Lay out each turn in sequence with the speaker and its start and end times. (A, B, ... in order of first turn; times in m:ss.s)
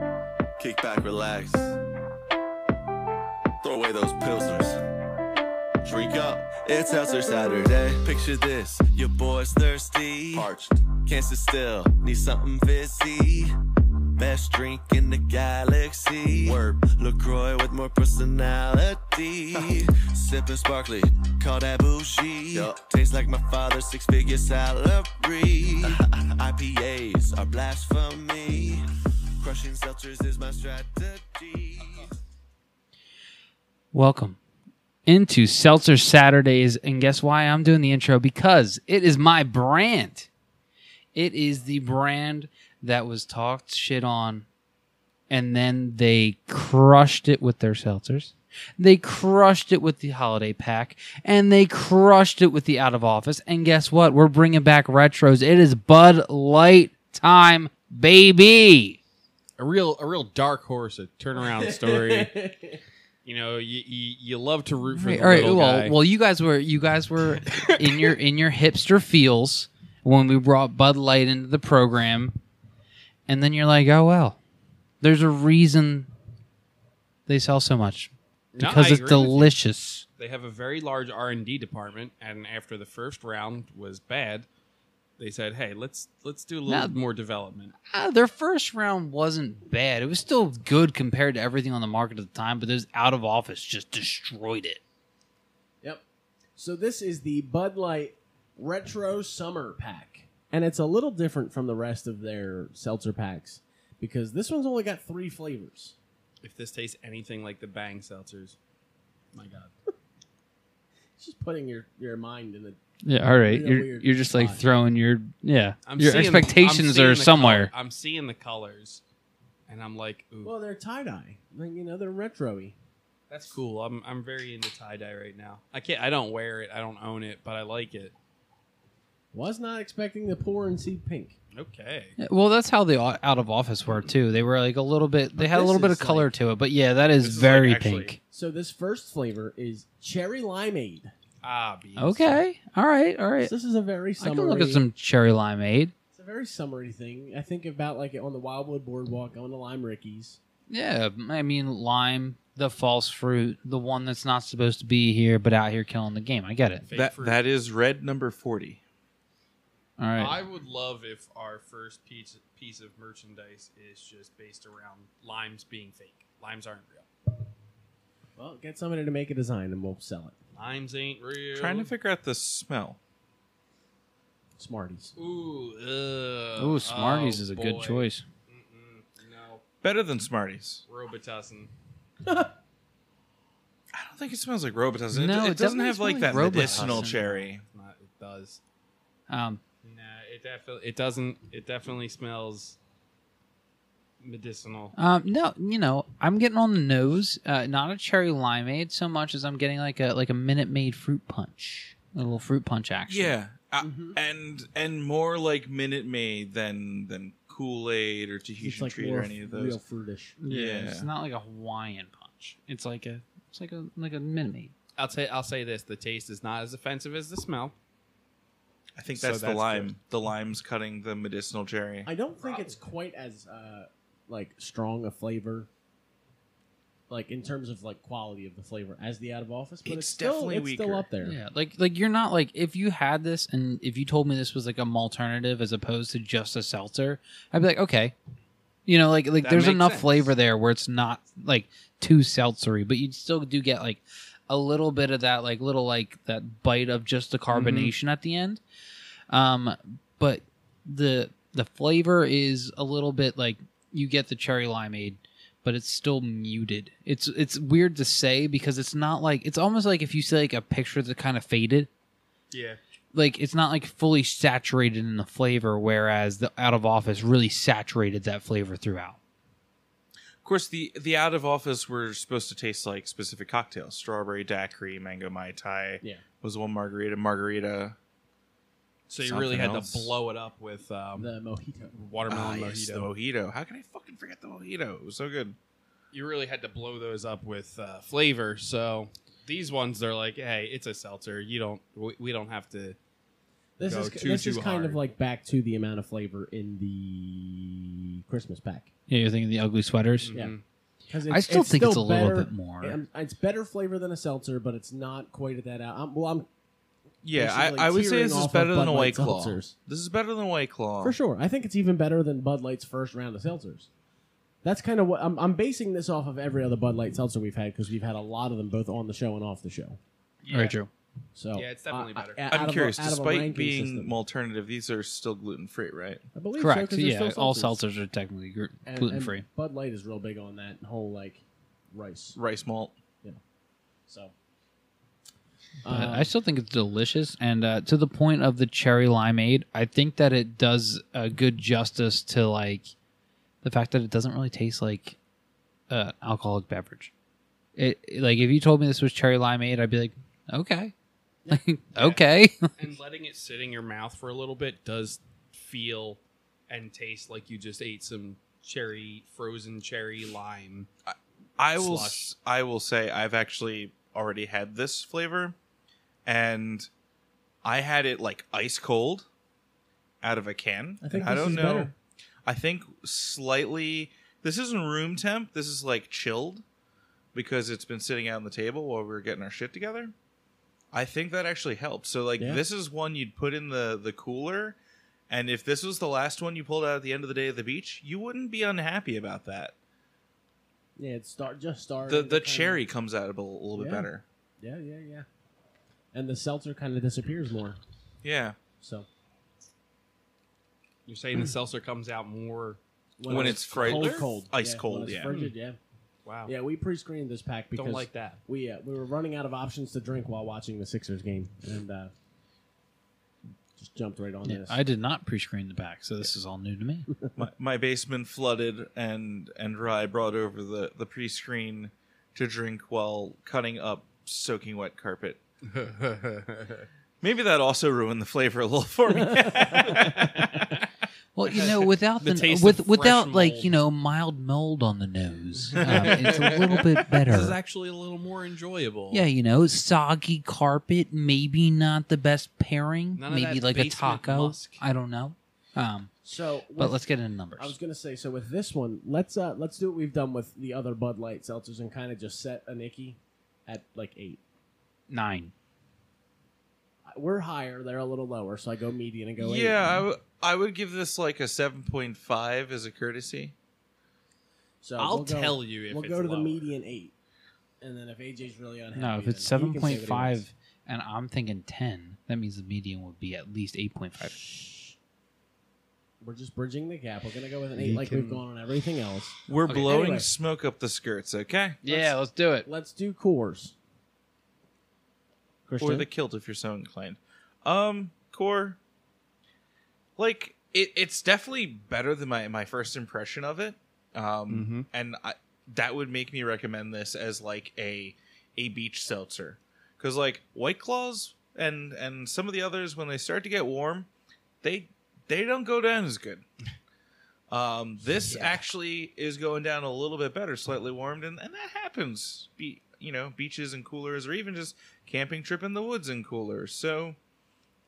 0:00.6-0:01.8 A
0:03.6-0:04.8 A
0:05.8-0:13.5 A
0:14.2-0:28.9 A
0:29.4-0:32.1 A
0:33.9-0:34.4 B
0:35.1-0:40.3 B
0:41.1-0:44.5 B
0:45.3-0:59.0 B
0:59.6-1:02.3 C
1:01.4-1:02.8 D
1:03.2-1:06.0 C
1:04.9-1:12.4 B
1:07.4-1:08.2 C
1:13.3-1:14.4 B
1:15.0-1:16.1 B
1:17.3-1:20.0 B
1:18.5-1:19.5 C
1:20.2-1:24.5 C
1:25.2-1:27.8 C
1:26.7-1:26.9 B
1:27.8-1:34.8 B
1:36.6-1:46.0 D
1:46.4-1:48.6 C
1:49.3-1:49.7 C
1:51.2-1:52.8 D
1:53.0-1:57.7 B
1:53.5-1:54.7 D
1:55.9-1:59.0 C
1:59.7-2:00.5 C
2:00.4-2:02.8 D
2:03.3-2:08.1 C
2:09.3-2:11.4 D
2:11.5-2:12.2 C
2:12.2-2:18.2 B
2:15.4-2:16.3 D
2:17.2-2:18.2 E
2:18.3-2:21.1 D
2:21.4-2:22.4 C
2:22.0-2:23.5 B
2:23.4-2:24.9 D
2:24.2-2:25.9 B
2:26.1-2:30.4 D
2:30.7-2:36.9 B
2:36.9-2:37.4 C
2:36.9-2:38.8 E
2:40.0-2:40.4 B
2:40.2-2:47.1 C
2:48.4-2:50.4 D
2:50.6-2:51.9 C
2:51.6-2:53.0 E
2:54.6-2:55.2 D
2:55.2-2:59.6 C
2:56.6-2:58.2 B
2:59.8-3:00.8 E
3:00.9-3:01.7 C
3:02.3-3:02.5 D
3:03.9-3:07.6 E
3:05.1-3:07.2 B
3:06.3-3:08.6 C
3:09.3-3:09.6 B
3:09.8-3:12.8 C
3:14.2-3:14.9 C
3:15.0-3:23.3 B
3:23.1-3:29.8 E
3:23.8-3:24.2 D
3:28.6-3:30.4 D
3:30.4-3:34.7 B
3:30.5-3:31.1 E
3:35.0-3:37.8 C
3:39.0-3:42.1 E
3:39.2-3:39.9 C
3:42.1-3:45.7 D
3:42.4-3:42.8 C
3:47.1-3:51.4 D
3:49.9-3:51.1 E
3:51.2-3:58.1 B
3:58.9-4:08.6 B
3:59.4-4:00.3 C
4:07.5-4:07.9 C
4:09.3-4:21.9 B
4:22.5-4:22.8 C
4:23.1-4:29.2 B
4:30.4-4:38.0 E
4:39.1-4:41.3 C
4:39.2-4:40.1 E
4:41.2-4:42.0 D
4:41.9-4:43.1 C
4:42.3-4:45.6 E
4:46.1-4:53.0 C
4:53.8-4:58.9 D
4:53.8-4:55.0 C
4:59.1-5:00.4 B
5:00.2-5:00.6 C
5:01.1-5:06.5 D
5:01.3-5:03.0 B
5:07.2-5:11.2 E
5:07.4-5:09.8 D
5:11.0-5:13.9 D
5:14.6-5:20.0 D
5:20.4-5:20.8 C
5:20.5-5:20.9 B
5:21.4-5:24.2 D
5:21.6-5:22.4 C
5:22.5-5:26.2 E
5:26.3-5:27.8 D
5:26.6-5:29.4 B
5:28.8-5:32.4 D
5:32.4-5:33.0 E
5:34.1-5:34.3 D
5:35.8-5:36.3 D
5:35.9-5:42.9 B
5:43.6-5:45.2 B
5:45.9-5:47.1 B
5:47.8-5:50.9 B
5:51.5-5:52.7 B
5:52.0-5:52.2 C
5:52.7-6:00.9 C
6:01.1-6:05.6 E
6:01.8-6:02.3 C
6:06.3-6:06.9 E
6:07.6-6:09.3 E
6:10.2-6:11.9 E
6:11.0-6:11.9 D
6:12.5-6:16.6 E
6:17.3-6:20.1 E
6:20.9-6:24.8 E
6:25.3-6:29.7 E
6:31.0-6:32.8 D
6:32.1-6:34.2 E
6:33.8-6:34.1 D
6:34.6-6:35.3 D
6:36.1-6:37.8 D
6:38.2-6:38.6 E
6:38.8-6:39.1 D
6:41.1-6:44.4 C
6:43.2-6:45.8 D
6:43.3-6:45.3 E
6:46.2-6:46.5 C
6:46.5-6:52.1 D
6:47.8-6:48.4 C
6:53.8-6:54.8 D
6:54.4-6:57.1 B
6:57.4-7:05.4 E
7:05.7-7:06.9 C
7:07.2-7:10.7 E
7:09.2-7:10.0 D
7:11.4-7:17.6 B
7:11.5-7:13.8 C
7:15.8-7:19.3 C
7:19.1-7:26.1 B
7:23.2-7:24.8 C
7:26.2-7:27.0 D
7:26.8-7:27.8 B
7:27.6-7:34.4 D
7:35.1-7:35.5 B
7:37.1-7:40.0 D
7:39.4-7:43.6 E
7:44.8-7:47.1 D
7:45.0-7:46.7 C
7:47.8-7:50.4 D
7:49.0-7:54.4 B
7:54.2-7:55.0 D
7:56.2-8:00.3 D
7:57.8-7:58.4 B
7:59.5-8:01.8 E
8:01.8-8:02.7 B
8:01.9-8:03.8 D
8:05.7-8:06.1 D
8:05.8-8:08.8 E
8:10.2-8:24.1 E
8:14.5-8:14.9 C
8:24.6-8:26.4 E
8:27.5-8:37.2 E